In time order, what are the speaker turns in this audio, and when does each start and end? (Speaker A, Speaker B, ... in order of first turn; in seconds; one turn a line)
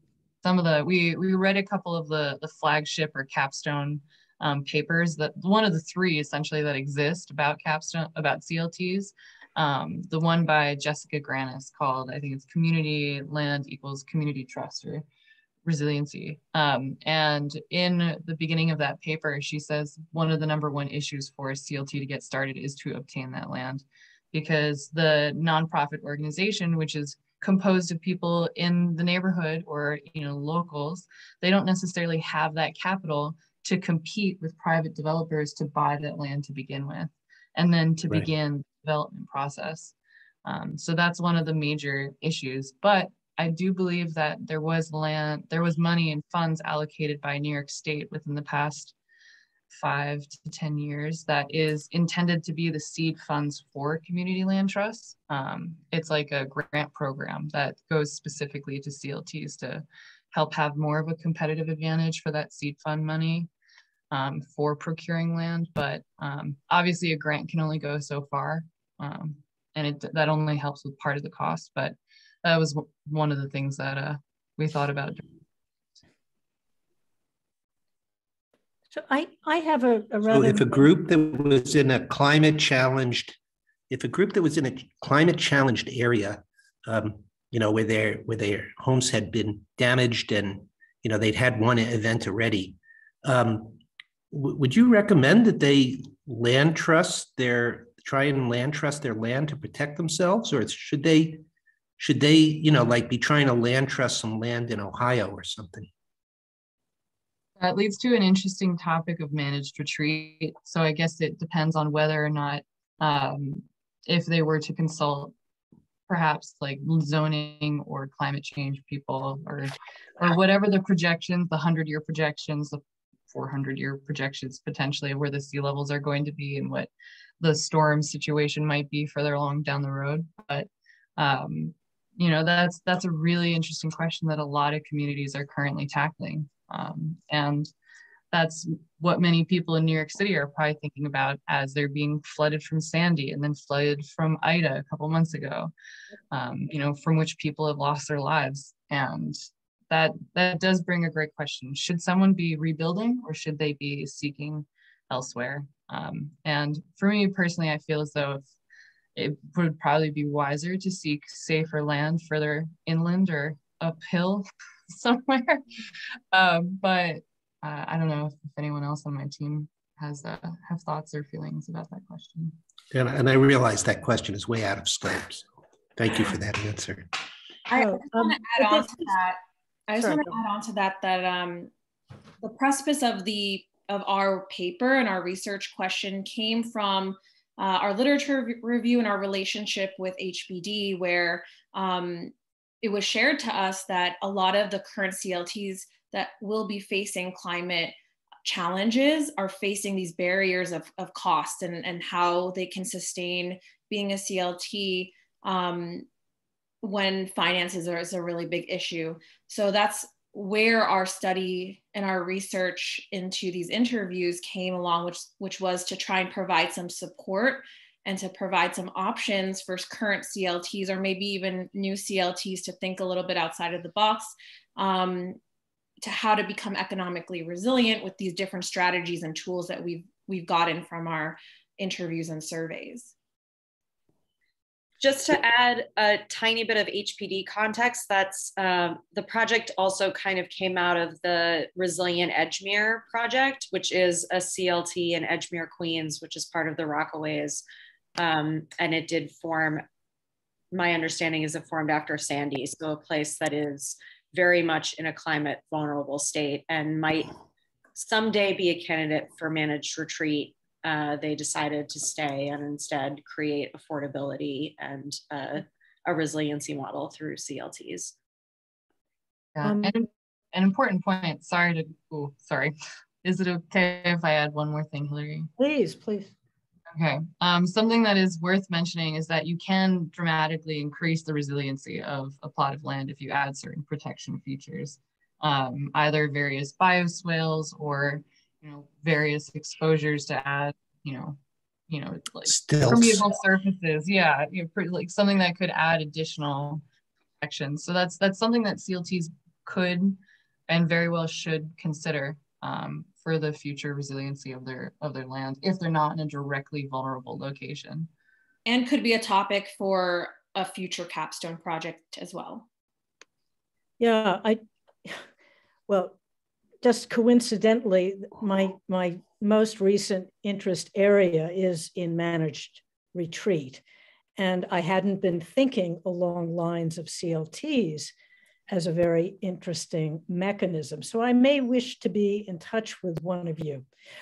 Speaker A: 0.4-15.1
Speaker A: 15.7-39.9
Speaker A: 40.5-49.0
Speaker A: 49.7-63.5
Speaker A: 64.1-75.2
Speaker B: 78.9-80.9
Speaker C: 80.3-83.4
Speaker C: 83.9-101.4
Speaker C: 102.0-105.9
Speaker A: 107.6-115.3
Speaker A: 116.1-137.7
Speaker A: 138.3-145.7
Speaker A: 146.3-149.4
Speaker A: 149.9-158.4
Speaker A: 159.2-172.6
Speaker C: 172.9-177.1
Speaker D: 177.7-179.4
Speaker B: 177.7-179.2
Speaker D: 179.9-181.7
Speaker B: 180.0-180.4
Speaker D: 182.4-206.1
Speaker D: 206.8-225.4
Speaker D: 226.0-233.2
Speaker E: 235.0-247.6
Speaker E: 248.2-249.8
Speaker E: 250.7-257.3
Speaker E: 257.9-268.1
Speaker A: 269.6-275.5
Speaker B: 269.6-270.0
Speaker B: 275.6-276.3
Speaker A: 276.9-291.4
Speaker A: 291.9-296.8
Speaker C: 292.5-293.3
Speaker A: 297.4-308.1
Speaker D: 308.7-312.7
Speaker B: 314.0-315.2
Speaker B: 315.9-316.2
Speaker B: 316.8-323.8
Speaker B: 324.4-328.1
Speaker B: 328.7-333.9